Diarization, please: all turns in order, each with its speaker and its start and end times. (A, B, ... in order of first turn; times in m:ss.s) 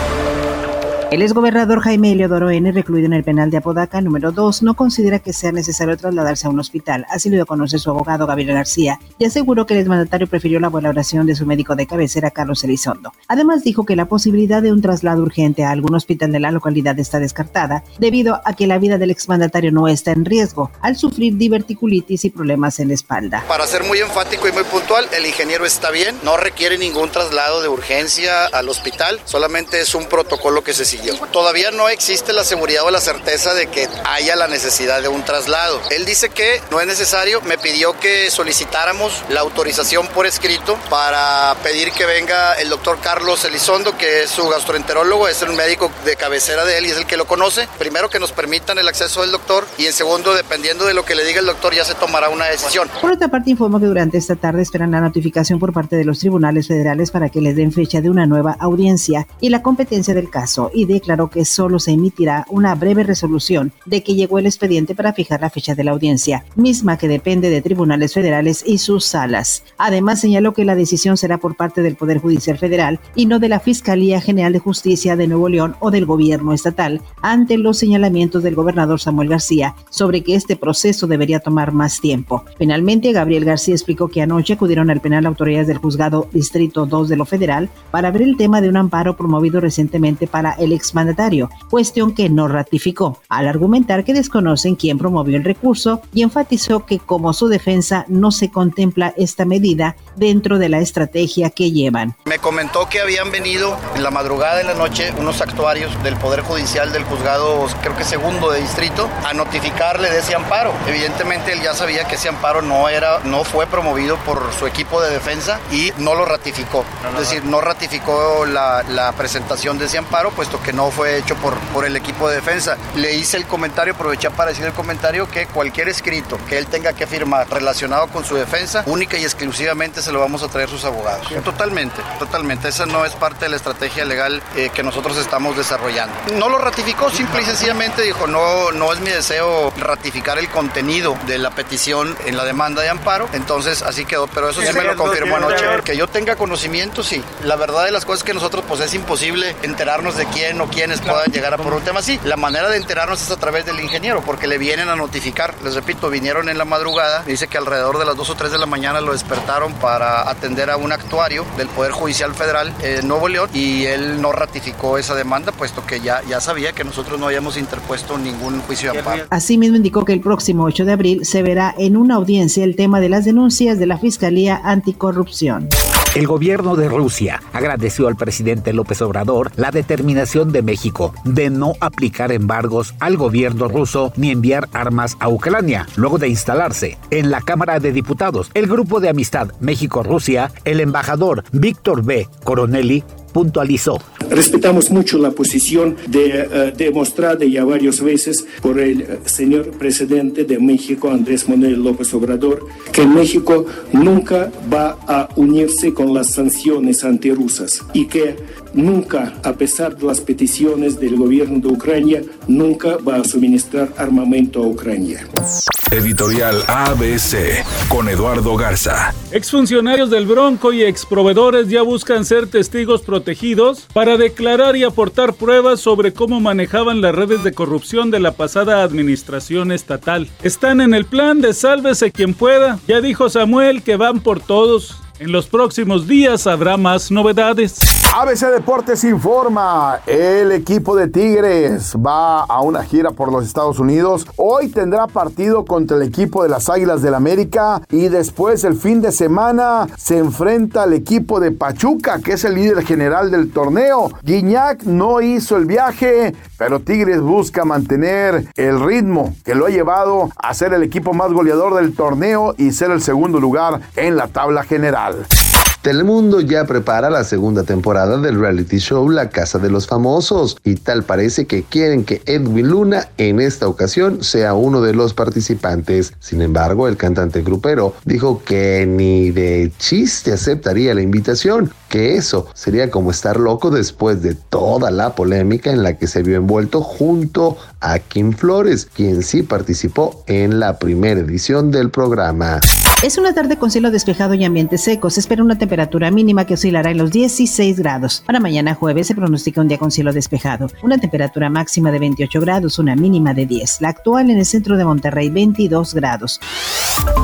0:01.1-0:23.4 A
0:23.5-0:52.9 B
0:53.0-1:42.2 A
1:42.3-2:49.2 B
2:49.3-2:55.7 A
2:56.1-3:14.0 C
3:14.3-3:35.3 D
3:35.9-3:39.2 E
3:39.3-3:57.8 F
3:58.1-4:25.3 G
4:25.8-4:52.6 H
4:53.0-5:06.4 A